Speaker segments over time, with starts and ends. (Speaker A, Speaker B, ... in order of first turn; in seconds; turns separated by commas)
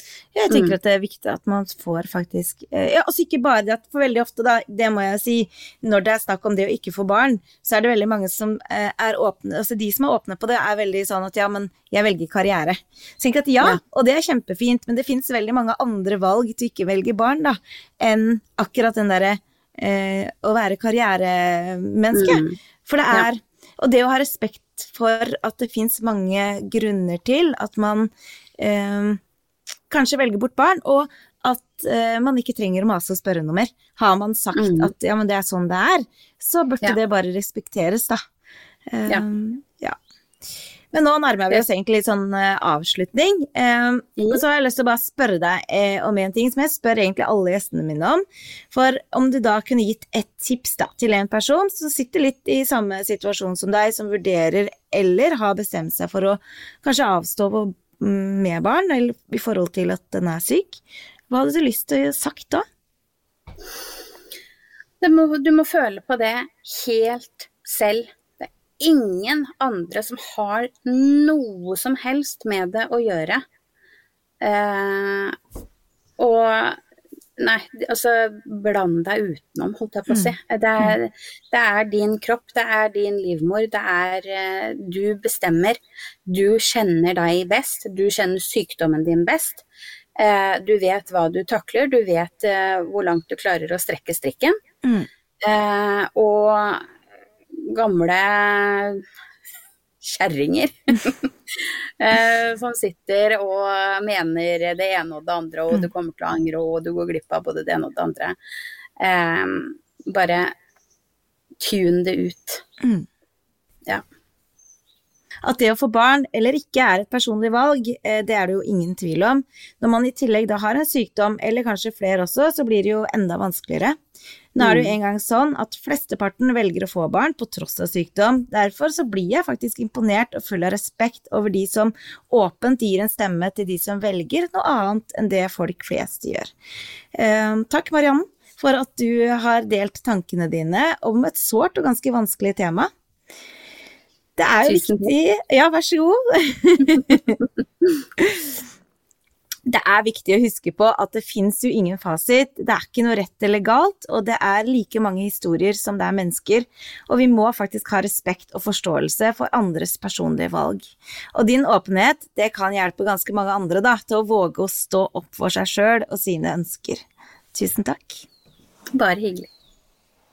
Speaker A: 0.3-29.2, Speaker B: 0.5-0.8, Speaker B: 22.1-22.6, Speaker A: 29.9-38.2, Speaker B: 34.5-34.9, Speaker A: 38.9-40.0, Speaker A: 40.9-62.6, Speaker B: 65.0-73.4, Speaker B: 74.4-75.4, Speaker B: 76.2-76.8, Speaker B: 77.4-89.6, Speaker A: 80.1-81.0, Speaker B: 90.2-94.5, Speaker B: 95.4-96.9, Speaker B: 97.5-99.0, Speaker B: 100.0-108.4, Speaker B: 109.0-110.5, Speaker B: 111.6-112.6, Speaker A: 112.8-113.1, Speaker A: 115.4-124.0, Speaker A: 124.5-136.5, Speaker B: 124.6-124.9, Speaker A: 137.1-142.9, Speaker A: 144.4-147.4, Speaker B: 144.7-145.1, Speaker A: 148.2-148.6, Speaker A: 149.7-168.3, Speaker B: 168.9-169.5